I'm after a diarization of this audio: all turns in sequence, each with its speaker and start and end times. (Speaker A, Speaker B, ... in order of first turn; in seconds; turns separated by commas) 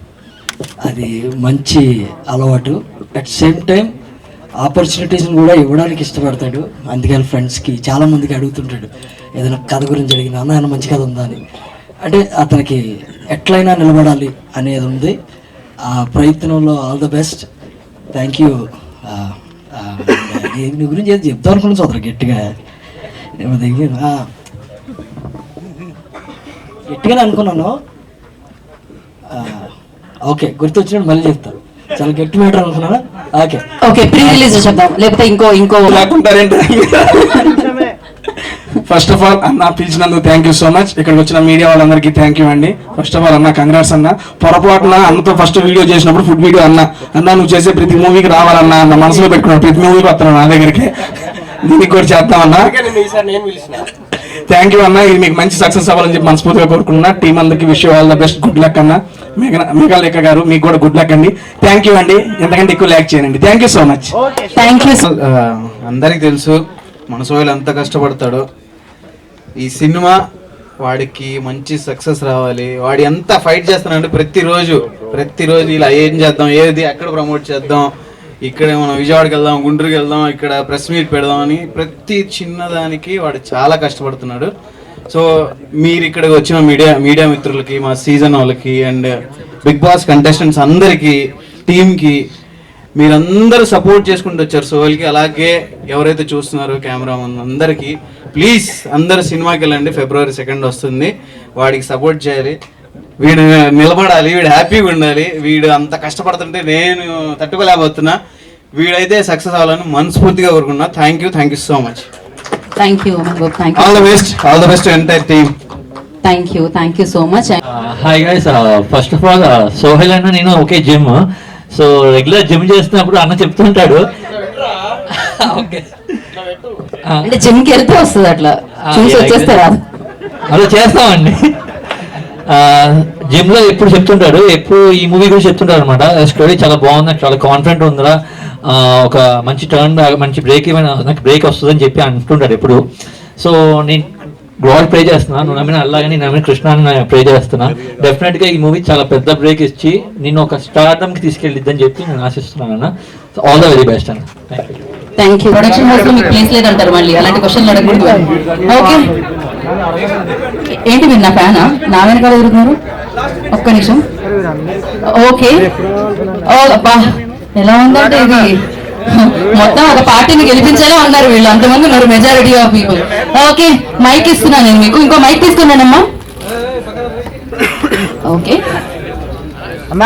Speaker A: 0.8-3.9, Speaker A: 4.6-11.4, Speaker A: 12.0-12.8, Speaker A: 13.3-15.2, Speaker A: 15.9-17.4, Speaker A: 18.1-22.5, Speaker A: 23.4-24.2, Speaker A: 26.9-27.8, Speaker A: 29.3-29.7, Speaker A: 30.2-34.5, Speaker B: 34.9-35.9, Speaker C: 35.9-37.5, Speaker C: 38.9-50.9, Speaker C: 51.6-52.7, Speaker C: 54.5-64.1, Speaker D: 65.9-66.5, Speaker D: 67.1-68.4, Speaker D: 69.6-70.2, Speaker D: 70.8-77.9, Speaker D: 78.5-84.5, Speaker D: 85.8-89.1, Speaker D: 89.6-91.2, Speaker D: 91.7-92.2, Speaker D: 93.0-102.5, Speaker D: 103.2-108.2, Speaker D: 108.8-112.0, Speaker B: 112.8-113.3, Speaker D: 113.7-115.5, Speaker B: 116.3-116.9, Speaker E: 117.7-121.2, Speaker E: 121.7-124.0, Speaker E: 125.5-125.9, Speaker B: 127.7-128.4, Speaker E: 128.9-129.4, Speaker E: 130.5-131.5, Speaker E: 132.5-138.2, Speaker E: 138.7-142.8, Speaker E: 143.4-144.1, Speaker E: 144.6-154.8, Speaker B: 155.4-159.1, Speaker B: 160.7-162.8, Speaker B: 163.5-164.0, Speaker B: 165.2-165.7, Speaker B: 166.5-168.5, Speaker B: 169.1-176.0, Speaker B: 178.2-178.6